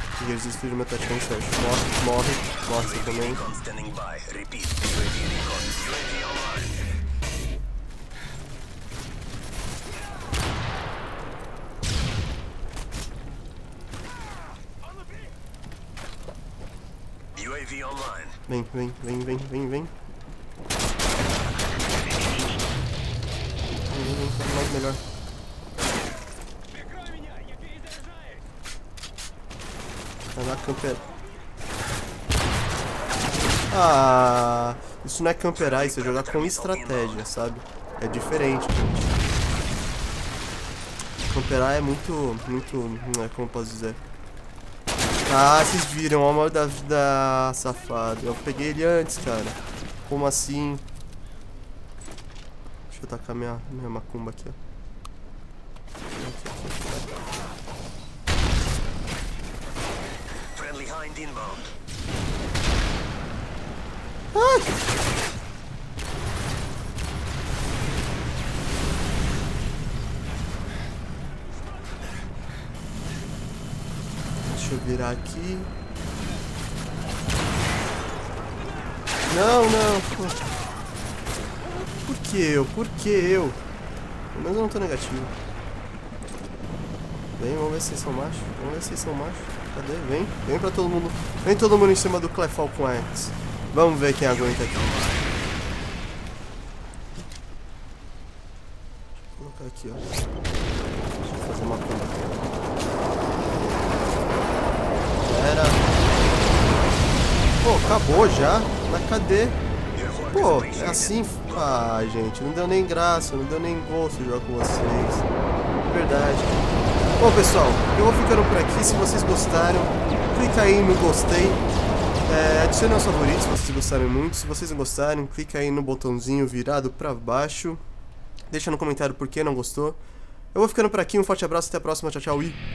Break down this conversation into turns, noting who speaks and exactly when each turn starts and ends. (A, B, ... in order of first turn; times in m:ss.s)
0:00.2-0:03.5 A
0:03.4-0:06.8 B
0:17.4-0:18.3 B
0:18.5-0:19.9 A
0:23.7-0:25.0 A
0:30.3-0:31.1 A
0:33.7-0:39.2 A
0:41.3-0:44.0 A
0:45.3-0:50.8 A
0:52.9-0:54.6 A
0:56.2-0:57.2 A
1:00.5-1:01.7 B
1:04.3-1:04.7 A
1:14.5-1:15.7 A
1:19.3-1:20.4 A
1:21.9-1:23.6 A
1:24.3-1:25.3 A
1:27.4-1:35.2 A
1:39.2-1:40.1 A
1:41.0-1:42.6 A
1:45.2-1:45.9 A
1:47.6-1:49.6 A
1:50.0-1:50.9 B
1:50.2-1:55.3 A
1:55.8-2:01.6 A
2:02.2-2:07.8 A
2:08.5-2:10.0 A
2:10.5-2:12.6 A